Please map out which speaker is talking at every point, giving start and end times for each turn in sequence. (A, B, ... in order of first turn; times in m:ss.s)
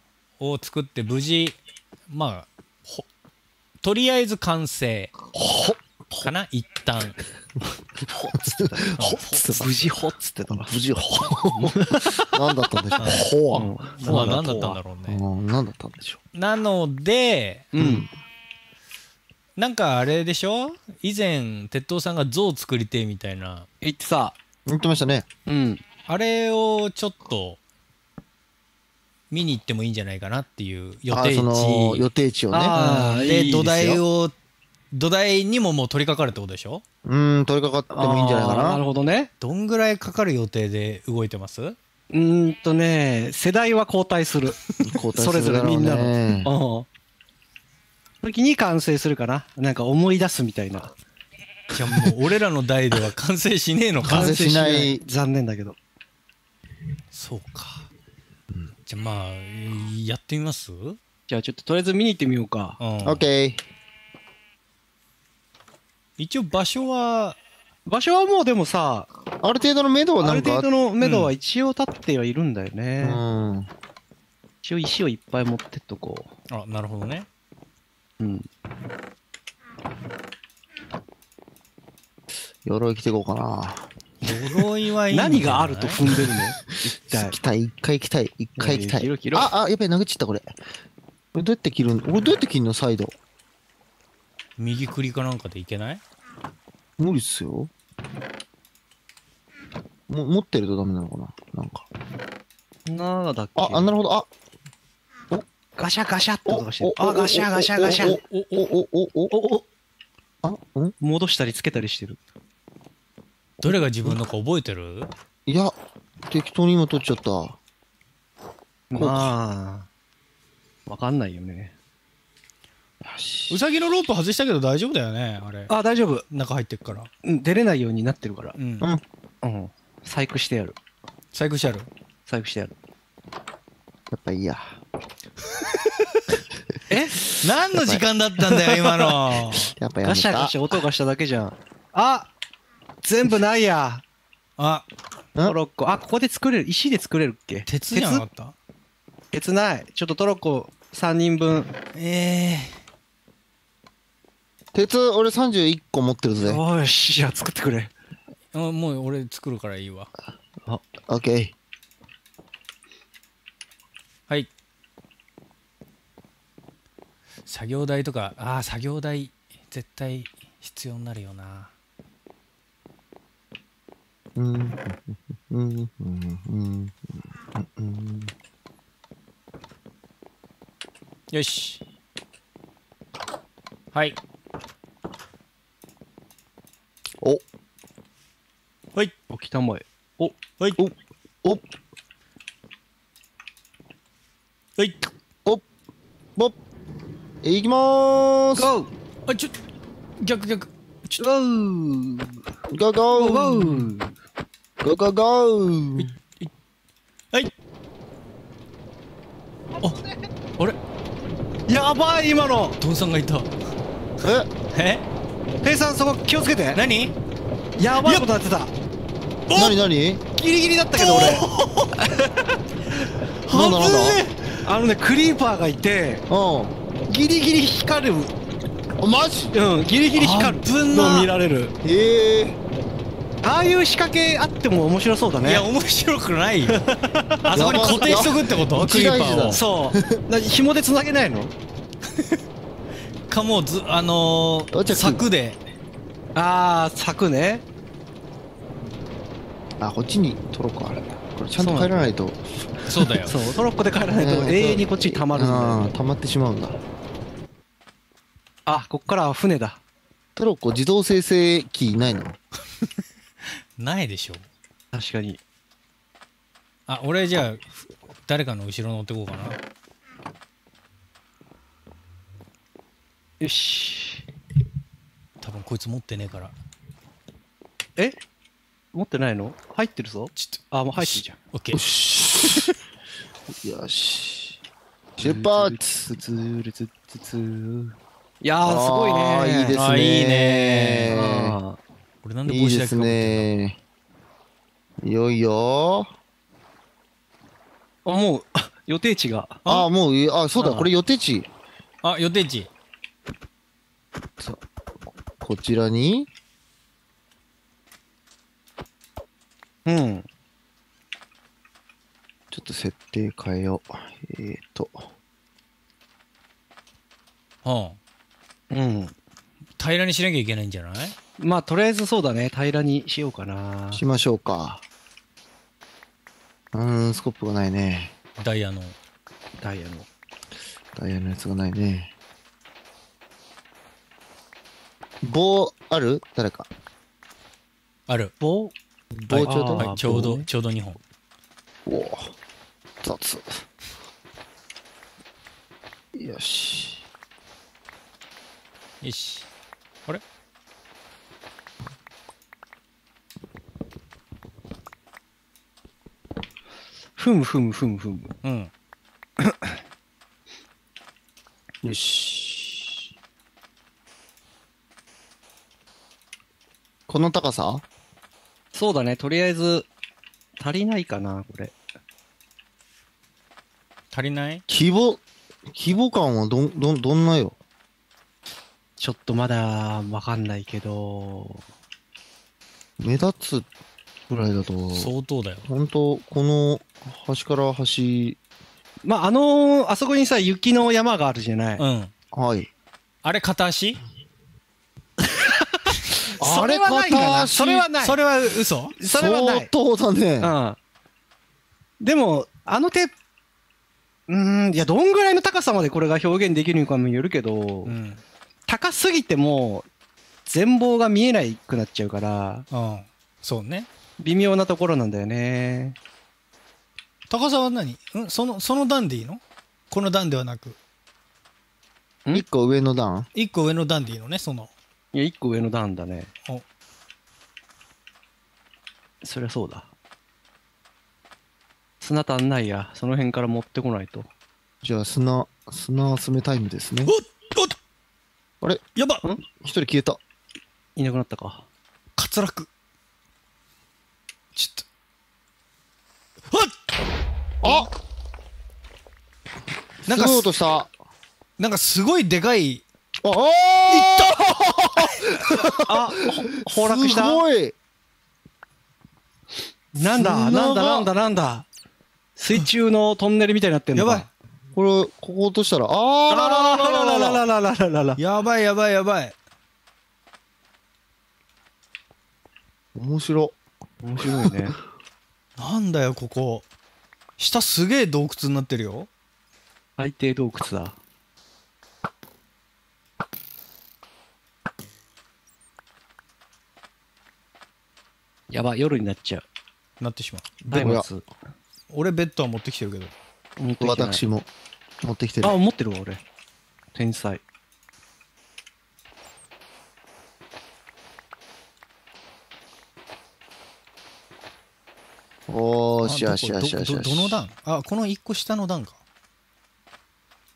0:00.4-0:01.6 A
0:02.1-0:03.1 A
0:03.8-0:05.2 A
0:05.4-0:05.8 B
0:06.2-0:07.2 A
0:08.1-0:14.8 B
0:08.5-0:09.9 C
0:09.0-0:09.4 A
0:10.5-0:11.8 C
0:12.3-0:14.5 C
0:13.0-0:13.3 A
0:14.0-0:15.2 A
0:15.1-0:16.2 C
0:16.3-0:17.7 A
0:17.7-0:18.1 B
0:17.8-0:18.1 C
0:19.6-0:23.7 A
0:23.8-0:24.4 B
0:24.7-0:25.3 C
0:25.5-0:25.8 B
0:26.0-0:27.6 A
0:29.3-0:32.1 A
0:31.1-0:32.8 C
0:32.5-0:34.0 B
0:32.7-0:34.4 A
0:34.9-0:36.8 A
0:37.0-0:38.8 C
0:37.9-0:39.3 B
0:39.4-0:41.8 A
0:42.1-0:44.6 B
0:44.8-0:46.5 C
0:45.2-0:46.9 B
0:48.2-0:50.9 B
0:51.7-0:54.4 A
0:54.0-0:55.0 C
0:54.1-0:55.8 B
0:57.1-0:57.9 A
0:58.9-1:01.0 A
1:01.3-1:02.8 B
1:02.8-1:03.3 A
1:03.0-1:03.6 C
1:06.2-1:07.4 A
1:07.9-1:09.1 B
1:09.4-1:10.7 C
1:10.2-1:13.2 B
1:11.0-1:11.3 A
1:13.0-1:13.7 C
1:14.6-1:16.3 B
1:16.5-1:17.3 A
1:18.2-1:18.5 B
1:22.6-1:23.9 C
1:24.2-1:26.0 A
1:24.2-1:27.4 B
1:26.0-1:26.4 C
1:27.1-1:30.5 C
1:28.6-1:29.5 B
1:31.3-1:33.1 C
1:34.6-1:36.0 A
1:37.0-1:37.7 C
1:40.1-1:41.9 C
1:42.9-1:44.0 B
1:43.6-1:44.3 C
1:45.8-1:48.2 B
1:46.5-1:49.3 C
1:48.0-1:48.7 A
1:49.3-1:49.6 B
1:50.4-1:50.9 C
1:51.0-1:52.2 B
1:53.6-1:55.1 A
1:55.5-1:55.7 C
1:56.3-1:57.6 C
1:58.9-1:59.9 B
1:59.0-1:59.3 C
2:00.9-2:01.7 B
2:03.0-2:03.6 C
2:03.5-2:05.7 A
2:05.7-2:06.3 B
2:06.3-2:07.1 A
2:07.2-2:08.6 B
2:08.6-2:08.9 A
2:09.4-2:10.8 B
2:11.3-2:11.9 A
2:12.3-2:12.7 B
2:14.1-2:14.8 C
2:16.9-2:17.2 B
2:17.4-2:19.7 A
2:17.6-2:18.0 C
2:18.4-2:19.2 B
2:19.7-2:20.8 C
2:20.0-2:22.3 B
2:23.0-2:24.0 B
2:24.6-2:24.9 A
2:25.4-2:28.2 B
2:27.7-2:28.6 A
2:29.3-2:31.7 B
2:31.9-2:32.8 A
2:34.7-2:36.6 C
2:36.4-2:37.9 B
2:38.5-2:40.1 A
2:40.7-2:41.5 C
2:47.5-2:51.7 A
2:54.4-2:58.3 C
3:01.3-3:01.8 A
3:09.3-3:10.4 B
3:10.8-3:11.6 C
3:14.8-3:15.1 A
3:17.4-3:18.7 C
3:18.6-3:18.9 B
3:19.3-3:19.5 A
3:20.2-3:21.2 A
3:21.2-3:22.3 B
3:22.7-3:23.9 C
3:23.1-3:24.1 B
3:24.8-3:26.1 C
3:26.0-3:26.5 A
3:31.7-3:32.8 B
3:32.8-3:33.5 A
3:34.2-3:34.5 C
3:34.7-3:35.0 A
3:35.6-3:36.8 B
3:36.8-3:37.1 A
3:37.8-3:38.7 B
3:38.0-3:38.3 A
3:39.5-3:39.8 A
3:39.6-3:40.2 C
3:40.4-3:41.5 B
3:41.0-3:42.0 A
3:42.0-3:42.6 B
3:43.1-3:44.6 A
3:43.5-3:44.2 C
3:44.6-3:46.2 B
3:46.3-3:46.8 C
3:47.1-3:48.3 B
3:49.0-3:49.6 C
3:49.5-3:51.7 B
3:50.1-3:51.3 A
3:51.8-3:52.6 C
3:53.4-3:55.7 B
3:55.4-3:56.9 A
3:56.7-3:58.3 B
3:57.4-3:59.6 A
3:57.5-4:00.2 C
3:59.5-4:01.5 B
4:03.3-4:05.6 A
4:04.7-4:05.2 C
4:06.4-4:07.6 B
4:09.8-4:12.4 C
4:11.6-4:12.0 B
4:12.9-4:13.4 A
4:13.2-4:15.9 B
4:14.2-4:16.8 C
4:18.7-4:19.8 B
4:20.4-4:22.4 C
4:23.8-4:24.5 A
4:24.9-4:25.4 B
4:26.9-4:29.6 A
4:33.4-4:34.2 B
4:35.4-4:36.5 A
4:38.9-4:41.4 B
4:40.4-4:41.8 A
4:41.7-4:42.7 C
4:43.6-4:44.6 C
4:45.2-4:49.8 B
4:45.2-4:46.2 C
4:48.6-4:51.6 C
4:49.7-4:51.1 A
4:51.1-4:51.8 B
4:52.2-4:53.5 A
4:52.5-4:53.8 C
4:55.0-4:56.1 C
4:58.0-4:59.6 B
4:59.7-5:01.5 C
5:00.6-5:00.9 A
5:02.0-5:02.7 A
5:05.4-5:06.3 C
5:09.8-5:10.3 B
5:12.5-5:15.1 C
5:17.6-5:18.0 A
5:18.7-5:19.1 B
5:19.8-5:21.2 A
5:21.4-5:24.0 B
5:23.9-5:24.8 C
5:26.7-5:28.1 C
5:28.4-5:29.0 A
5:29.6-5:30.1 B
5:31.0-5:32.1 C
5:35.2-5:36.7 C
5:38.1-5:38.3 A
5:38.4-5:38.7 B
5:39.2-5:39.9 C
5:39.3-5:41.0 A
5:39.4-5:40.5 B
5:41.9-5:42.4 C
5:43.0-5:43.7 C
5:46.1-5:47.0 C
5:49.0-5:49.5 A
5:57.2-5:58.4 B
5:58.4-5:58.7 A
5:59.4-5:59.8 B
6:01.8-6:03.1 C
6:07.1-6:07.8 C
6:08.7-6:09.9 B
6:10.6-6:11.7 B
6:14.1-6:14.6 A
6:14.7-6:17.6 C
6:19.0-6:21.6 B
6:23.0-6:23.7 C
6:24.3-6:25.1 C
6:24.9-6:25.7 A
6:25.7-6:28.4 C
6:29.0-6:31.8 B
6:31.8-6:32.1 A
6:32.3-6:32.7 C
6:33.2-6:34.0 A
6:35.3-6:39.7 B
6:36.4-6:37.9 C
6:38.0-6:39.0 A
6:39.1-6:40.5 C
6:40.4-6:40.8 B
6:42.0-6:43.1 B
6:44.3-6:48.0 B
6:47.8-6:48.2 A
6:48.7-6:49.9 B
6:50.5-6:52.7 B
6:52.7-6:53.9 A
6:54.2-6:56.0 B
6:57.3-7:00.8 A
7:02.3-7:03.3 C
7:03.4-7:04.7 A
7:05.1-7:06.3 B
7:09.2-7:09.9 B
7:12.0-7:14.3 B
7:14.8-7:17.1 C
7:17.0-7:17.8 A
7:19.0-7:19.2 A
7:19.5-7:20.2 C
7:21.0-7:21.6 B
7:22.2-7:22.7 A
7:24.6-7:24.8 A
7:26.5-7:26.9 A
7:27.6-7:27.9 C
7:30.0-7:30.9 C
7:30.1-7:30.5 A
7:31.6-7:32.8 A
7:33.2-7:37.8 C
7:33.9-7:35.6 A
7:35.7-7:37.4 B
7:39.9-7:41.7 B
7:40.0-7:41.1 C
7:42.4-7:44.3 B
7:44.0-7:44.3 A
7:44.7-7:47.4 C
7:46.3-7:48.2 B
7:48.2-7:49.4 A
7:53.0-7:53.6 C
7:54.0-7:54.8 B
7:54.2-7:54.7 C
7:55.6-7:56.7 A
7:57.4-7:59.1 A
8:00.0-8:01.0 B
8:08.5-8:09.4 B
8:10.0-8:10.6 A
8:10.6-8:11.1 C
8:10.7-8:11.3 B
8:11.9-8:13.1 A
8:13.6-8:14.2 B
8:13.8-8:14.5 C
8:15.0-8:15.6 C
8:15.4-8:16.2 B
8:17.0-8:17.4 B
8:25.5-8:27.5 C
8:26.0-8:29.0 A